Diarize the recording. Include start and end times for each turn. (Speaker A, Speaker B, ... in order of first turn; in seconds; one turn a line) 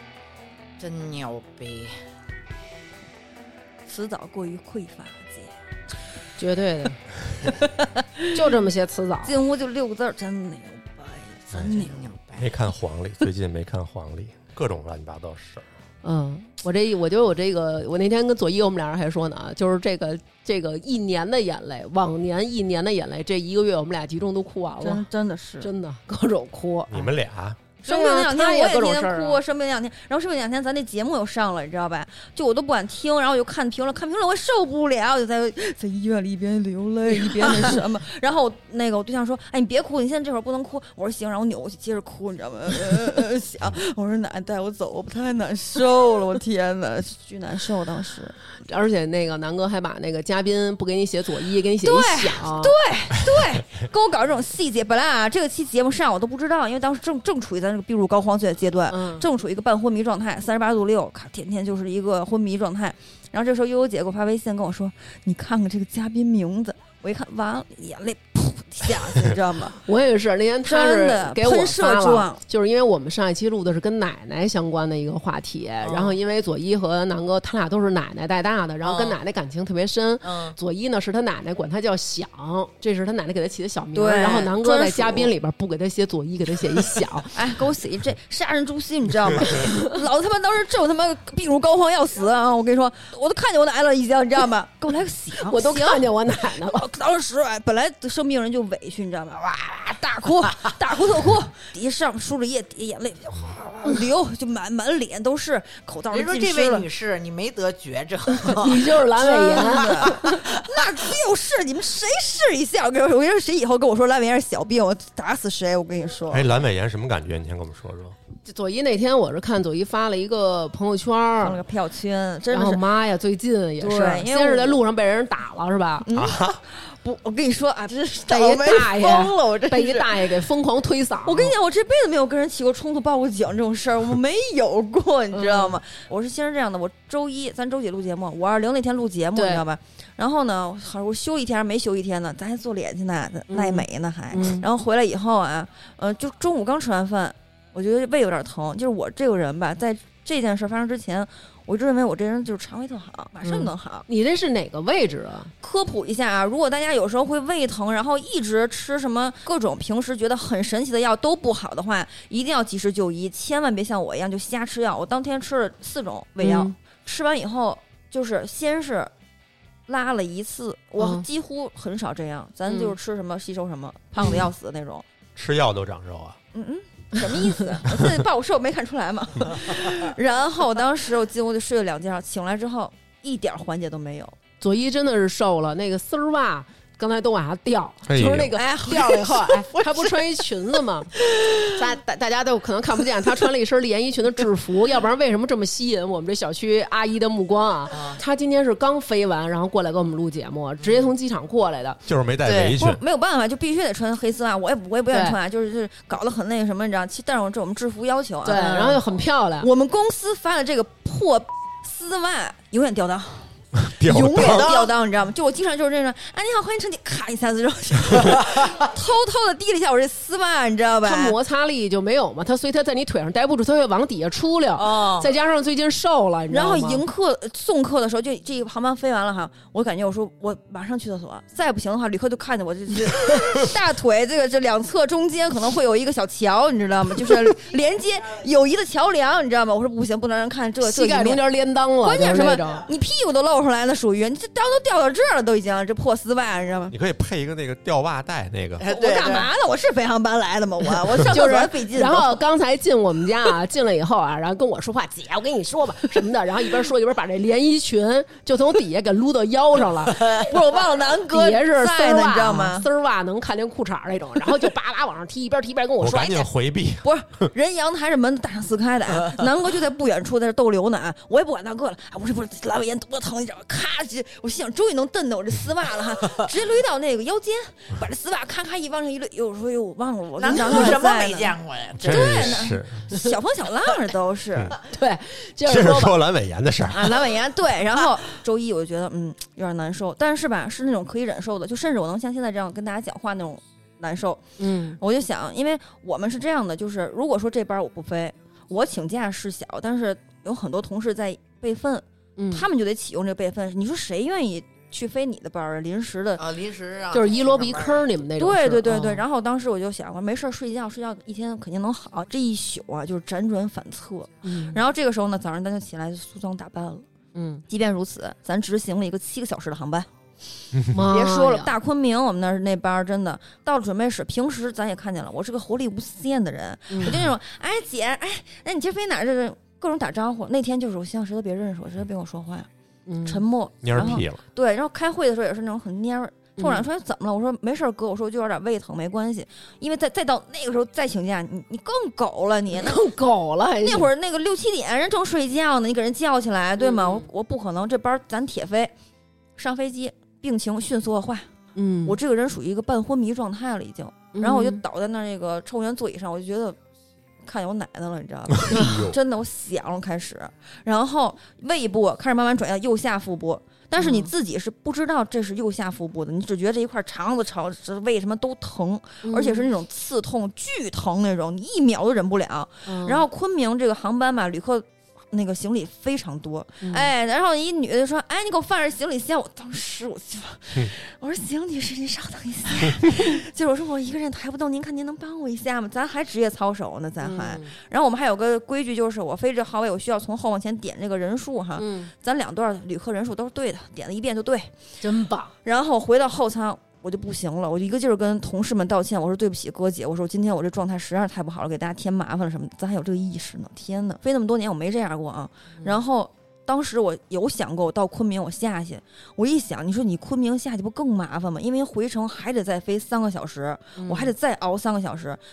Speaker A: 0.8-2.0
Speaker B: 3.9-5.5
Speaker C: 6.4-7.0
Speaker B: 7.5-8.2
Speaker C: 8.3-9.3
Speaker B: 9.2-12.1
Speaker A: 11.5-12.5
Speaker D: 12.4-15.7
Speaker C: 16.0-25.1
Speaker B: 24.8-25.7
Speaker C: 25.6-27.1
Speaker D: 26.9-27.6
Speaker B: 27.8-48.3
Speaker C: 27.8-29.4
Speaker C: 48.6-52.8
Speaker B: 51.8-69.8
Speaker C: 58.9-59.3
Speaker C: 69.8-87.3
Speaker B: 70.7-72.4
Speaker A: 75.8-76.2
Speaker A: 78.8-79.2
Speaker A: 80.2-80.6
Speaker B: 83.9-85.3
Speaker B: 87.3-106.9
Speaker C: 89.5-89.8
Speaker C: 95.4-96.8
Speaker A: 106.1-110.8
Speaker C: 108.3-110.3
Speaker B: 109.2-116.5
Speaker D: 116.3-118.2
Speaker C: 118.4-121.6
Speaker B: 121.4-122.8
Speaker C: 122.5-126.1
Speaker B: 123.8-124.8
Speaker B: 126.0-130.2
Speaker D: 126.1-126.6
Speaker C: 128.3-131.5
Speaker B: 131.2-154.1
Speaker C: 135.3-135.8
Speaker C: 139.3-139.6
Speaker C: 143.5-144.6
Speaker C: 153.4-155.5
Speaker B: 155.6-169.1
Speaker C: 166.4-166.8
Speaker B: 169.9-175.0
Speaker C: 171.0-171.2
Speaker C: 172.7-172.9
Speaker C: 174.2-174.5
Speaker D: 175.3-176.4
Speaker B: 176.5-184.3
Speaker D: 177.9-178.2
Speaker C: 184.6-191.1
Speaker D: 188.1-188.6
Speaker B: 188.5-190.2
Speaker B: 191.2-191.7
Speaker C: 191.7-202.0
Speaker A: 197.9-198.2
Speaker A: 200.8-201.1
Speaker D: 202.1-203.0
Speaker B: 202.4-209.0
Speaker C: 205.1-205.4
Speaker C: 208.4-209.7
Speaker A: 208.6-208.8
Speaker B: 209.6-213.5
Speaker D: 213.8-214.7
Speaker B: 214.0-221.3
Speaker A: 214.3-214.9
Speaker A: 218.2-218.7
Speaker C: 221.0-227.0
Speaker A: 224.8-225.3
Speaker B: 226.5-241.4
Speaker C: 240.8-242.8
Speaker B: 242.0-246.9
Speaker D: 246.9-248.9
Speaker A: 248.8-249.5
Speaker B: 248.8-252.4
Speaker C: 251.3-260.5
Speaker B: 260.3-262.9
Speaker C: 261.3-266.5
Speaker D: 266.0-267.1
Speaker B: 267.0-284.8
Speaker A: 280.4-282.6
Speaker D: 282.0-283.1
Speaker C: 284.9-286.2
Speaker D: 285.6-287.3
Speaker B: 286.9-294.4
Speaker C: 294.6-295.0
Speaker B: 295.0-306.5
Speaker C: 302.4-302.6
Speaker A: 306.4-308.1
Speaker C: 307.1-309.2
Speaker B: 308.4-317.1
Speaker C: 314.4-314.8
Speaker C: 317.4-317.6
Speaker B: 317.7-320.1
Speaker C: 320.9-321.7
Speaker B: 321.0-332.7
Speaker C: 326.9-327.2
Speaker C: 333.1-333.4
Speaker B: 333.2-343.1
Speaker D: 333.8-334.4
Speaker C: 336.6-336.9
Speaker C: 342.7-344.1
Speaker B: 343.8-348.9
Speaker C: 346.8-347.3
Speaker B: 349.6-351.5
Speaker C: 351.8-352.2
Speaker B: 352.1-356.8
Speaker C: 354.4-354.8
Speaker B: 357.4-394.7
Speaker D: 358.5-359.2
Speaker C: 364.0-364.3
Speaker C: 369.2-369.7
Speaker C: 372.9-373.2
Speaker C: 376.8-377.1
Speaker C: 387.2-387.7
Speaker C: 391.8-392.1
Speaker C: 395.0-395.5
Speaker B: 395.6-415.4
Speaker C: 414.0-414.3